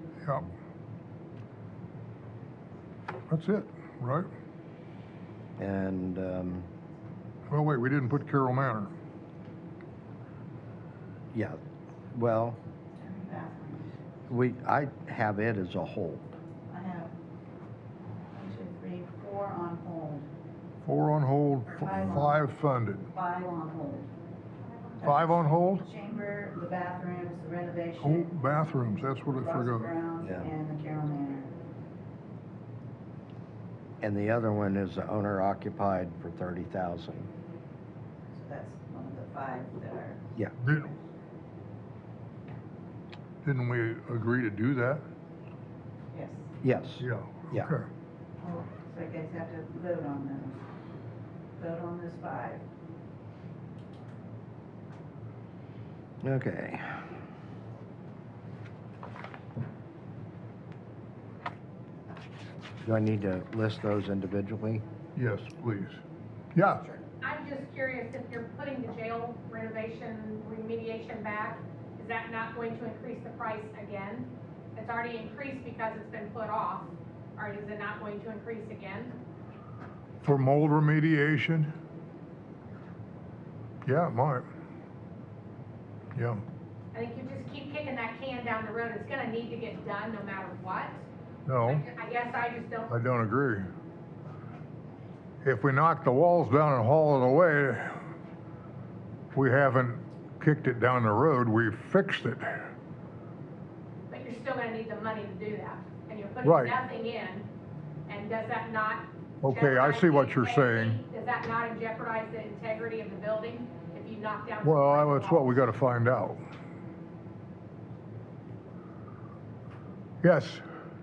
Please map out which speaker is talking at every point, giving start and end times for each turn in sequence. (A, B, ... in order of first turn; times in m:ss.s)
0:03.3-0:04.3 A
0:05.6-0:06.7 B
0:07.5-0:08.9 A
0:11.3-0:11.6 B
0:12.1-0:12.6 B
0:12.9-0:13.9 C
0:14.3-0:16.3 B
0:16.7-0:17.1 C
0:18.3-0:20.3 C
0:20.8-0:23.1 A
0:21.7-0:22.4 C
0:23.1-0:24.1 C
0:24.8-0:28.3 C
0:25.0-0:25.8 A
0:28.0-0:29.9 A
0:29.2-0:31.5 C
0:34.0-0:37.3 B
0:38.3-0:40.2 C
0:40.6-0:40.9 A
0:43.4-0:45.0 A
0:46.1-0:46.5 C
0:46.6-0:47.7 B
0:47.0-0:47.9 A
0:48.4-0:50.6 C
0:51.6-0:52.6 C
0:56.2-0:57.0 B
1:02.8-1:04.8 B
1:05.1-1:06.0 A
1:06.5-1:06.9 A
1:07.2-1:19.1 D
1:20.2-1:21.7 A
1:23.8-1:24.4 A
1:26.1-1:26.4 A
1:26.9-1:31.0 D
1:31.4-1:31.8 A
1:31.6-1:32.9 D
1:32.9-1:33.7 A
1:35.4-1:38.0 A
1:39.3-1:42.7 A
1:44.1-1:47.4 D
1:46.4-1:46.8 A
1:48.1-1:55.6 D
1:49.4-1:51.0 A
1:54.6-1:56.4 A
2:00.2-2:00.6 A